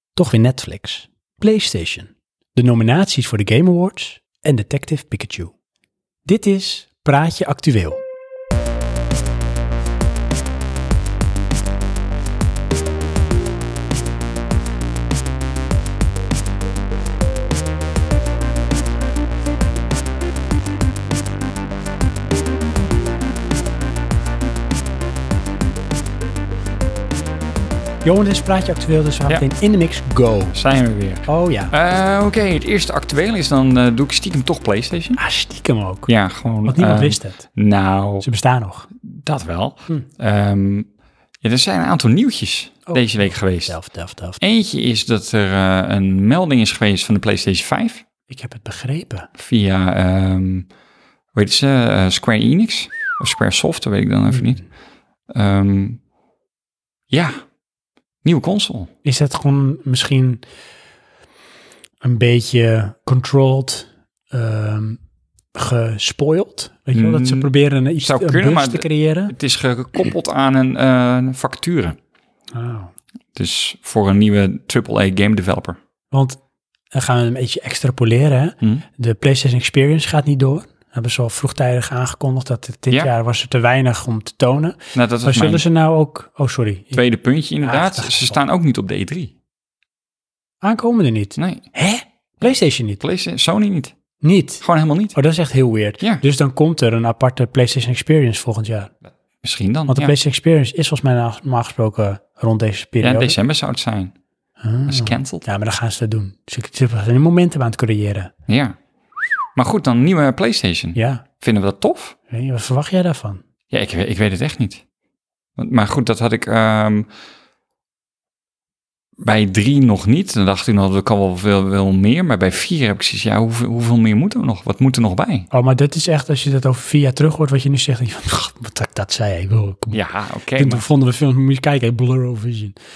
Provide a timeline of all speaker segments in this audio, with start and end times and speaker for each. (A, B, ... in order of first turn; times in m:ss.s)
0:00.2-0:05.5 A
0:06.3-0:08.0 A
0:28.0-0:30.6 A
0:30.5-0:35.2 B
0:31.2-0:31.7 A
0:35.2-0:36.1 A
0:36.1-0:38.2 B
0:36.7-0:37.4 A
0:38.2-0:38.9 A
0:39.0-0:40.9 B
0:41.4-0:43.7 B
0:42.9-0:44.4 A
0:44.4-0:48.0 B
0:48.3-0:49.3 A
0:49.4-0:50.7 B
0:51.3-0:54.6 B
0:55.3-0:56.0 B
0:57.1-0:57.4 B
0:58.2-0:58.9 B
0:59.0-1:00.4 A
1:02.0-1:05.0 A
1:05.6-1:09.3 A
1:07.0-1:12.0 B
1:12.5-1:12.9 A
1:13.3-1:15.8 B
1:16.1-1:16.4 A
1:16.9-1:27.0 A
1:24.9-1:25.6 B
1:26.9-1:29.3 B
1:27.6-1:28.4 A
1:30.6-1:33.0 A
1:31.4-1:31.6 B
1:33.0-1:34.0 B
1:34.2-1:34.6 A
1:34.6-1:35.2 B
1:35.1-1:38.9 A
1:39.4-1:40.1 B
1:39.9-1:43.4 A
1:43.0-1:44.1 B
1:44.6-1:48.3 A
1:44.9-1:45.4 B
1:48.5-1:48.8 B
1:49.6-1:52.2 B
1:51.0-1:51.2 A
1:52.3-1:53.4 A
1:53.7-1:54.8 B
1:55.6-1:57.1 B
1:59.2-2:05.5 B
2:05.5-2:10.0 A
2:09.9-2:10.8 B
2:10.6-2:12.8 A